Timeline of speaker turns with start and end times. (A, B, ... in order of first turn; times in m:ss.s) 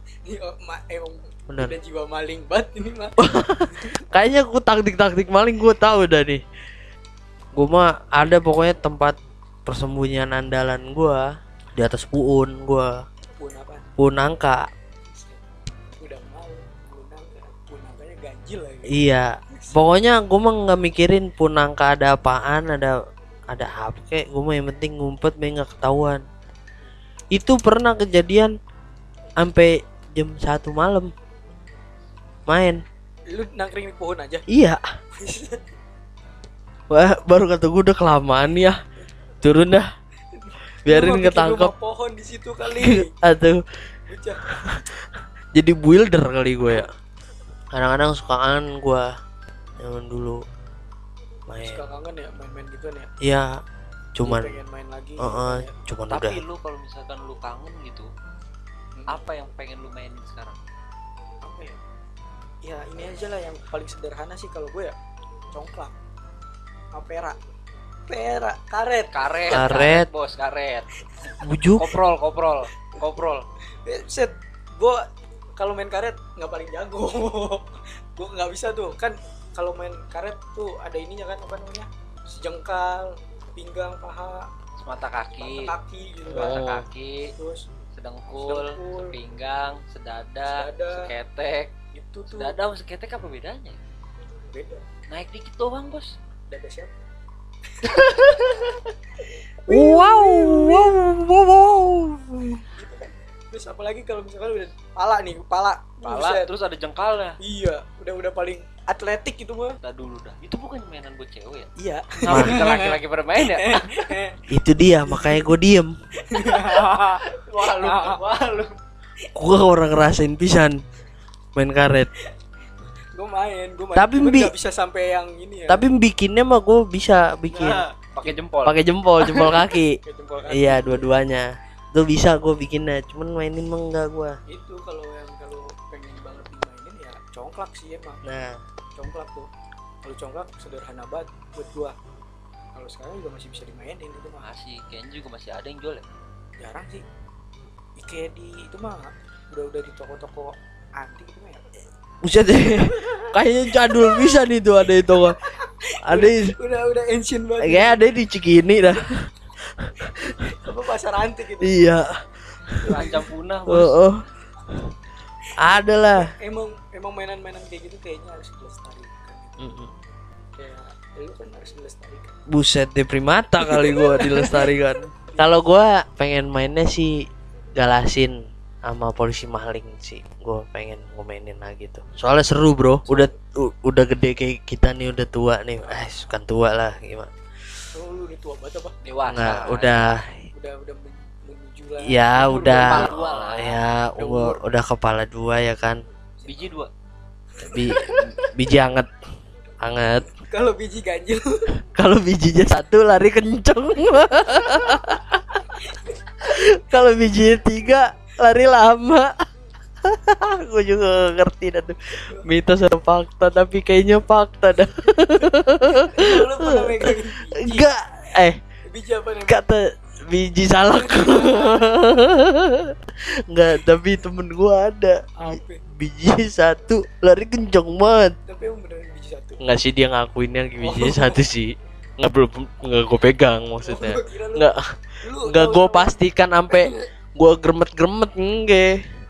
0:00.2-0:04.0 A
0:01.5-0:01.8 B
0:03.2-0:06.4 B
0:07.6-0:11.2 B
0:11.8-0:12.9 B
0:13.4-0:13.8 A
0:14.0-0:14.6 B
0:15.1-0:15.4 A
0:16.0-0:19.0 A
0:18.9-0:23.0 B
0:19.6-0:19.9 A
0:23.5-0:26.2 B
0:27.4-0:28.5 B
0:29.4-0:31.1 B
0:32.5-0:32.8 B
0:33.3-0:34.4 A
0:34.5-0:34.8 B
0:35.2-0:35.6 A
0:36.9-0:38.8 B
0:39.4-0:39.9 B
0:40.3-0:43.1 A
0:40.8-0:41.7 B
0:42.8-0:43.6 B
0:44.1-0:44.4 A
0:44.7-0:45.0 B
0:45.5-0:46.9 B
0:47.7-0:49.1 B
0:49.8-0:50.4 B
0:51.5-0:51.8 B
0:51.6-0:53.1 A
0:54.2-0:54.6 B
0:54.2-0:55.7 A
0:55.2-0:56.4 B
0:56.1-0:58.1 C
0:59.0-0:59.2 A
0:59.1-1:00.6 C
1:01.4-1:01.8 A
1:02.6-1:04.9 A
1:05.5-1:05.9 A
1:06.9-1:07.4 A
1:08.1-1:09.7 A
1:09.1-1:10.9 C
1:09.5-1:10.1 B
1:11.4-1:11.9 B
1:11.8-1:13.5 C
1:13.8-1:15.0 A
1:15.6-1:24.4 A
1:24.8-1:25.7 C
1:25.4-1:26.6 A
1:26.3-1:26.9 B
1:26.3-1:27.3 C
1:27.4-1:27.6 A
1:27.9-1:31.7 C
1:28.3-1:29.2 A
1:30.5-1:31.1 A
1:31.9-1:32.6 A
1:32.3-1:33.8 C
1:34.5-1:34.8 A
1:35.1-1:36.1 C
1:36.5-1:37.0 A
1:37.9-1:38.8 C
1:39.6-1:41.0 A
1:39.7-1:42.6 B
1:42.7-1:46.5 A
1:46.0-1:47.4 C
1:47.4-1:49.8 A
1:49.8-1:51.7 C
1:51.8-1:52.9 A
1:52.2-1:54.1 C
1:52.3-1:52.6 B
1:53.4-1:54.4 A
1:54.5-1:55.9 B
1:55.1-1:55.4 A
1:56.3-1:58.2 A
1:56.4-1:58.7 C
1:59.4-2:00.8 B
2:01.6-2:02.1 B
2:03.1-2:05.9 A
2:04.0-2:04.5 B
2:05.7-2:07.8 B
2:07.5-2:08.8 C
2:08.6-2:09.9 B
2:10.0-2:11.2 A
2:10.5-2:14.4 B
2:14.5-2:18.2 A
2:18.2-2:18.6 B
2:19.0-2:19.5 A
2:20.0-2:22.0 A
2:22.8-2:24.5 A
2:24.4-2:26.0 C
2:26.6-2:27.0 A
2:28.0-2:31.6 A
2:32.2-2:35.4 B
2:33.1-2:34.3 A
2:35.9-2:38.1 A
2:36.0-2:36.6 B
2:37.6-2:39.2 B
2:39.7-2:40.4 B
2:40.4-2:41.9 A
2:41.6-2:42.1 B
2:42.7-2:43.0 B
2:42.8-2:43.2 A
2:42.9-2:44.0 C
2:43.7-2:44.2 B
2:45.6-2:46.3 B
2:45.7-2:49.7 A
2:49.6-2:49.9 B
2:50.6-2:52.3 A
2:52.5-2:57.1 B
2:53.6-2:54.8 A
2:55.3-2:55.5 A
2:57.8-2:58.3 B
2:58.9-3:07.3 B
3:03.0-3:03.4 A
3:05.8-3:06.2 A
3:07.9-3:09.0 A
3:09.0-3:10.1 C
3:09.2-3:10.4 B
3:10.5-3:13.2 A
3:12.0-3:16.0 B
3:12.4-3:13.8 C
3:14.2-3:14.6 A
3:16.4-3:16.7 A
3:16.4-3:16.9 C
3:17.6-3:18.3 A
3:17.6-3:19.1 B
3:19.8-3:20.3 B
3:20.3-3:21.4 A
3:21.9-3:25.6 B
3:25.8-3:26.3 A
3:26.5-3:29.3 B
3:30.0-3:38.6 B
3:36.0-3:37.9 A
3:38.9-3:39.6 A
3:39.5-3:42.9 B
3:40.9-3:41.9 A
3:43.5-3:48.4 B
3:45.4-3:45.8 A
3:48.5-3:49.6 A
3:49.6-3:54.8 B
3:50.8-3:51.4 A
3:53.8-3:54.7 A
3:55.2-3:56.2 A
3:55.4-3:58.9 B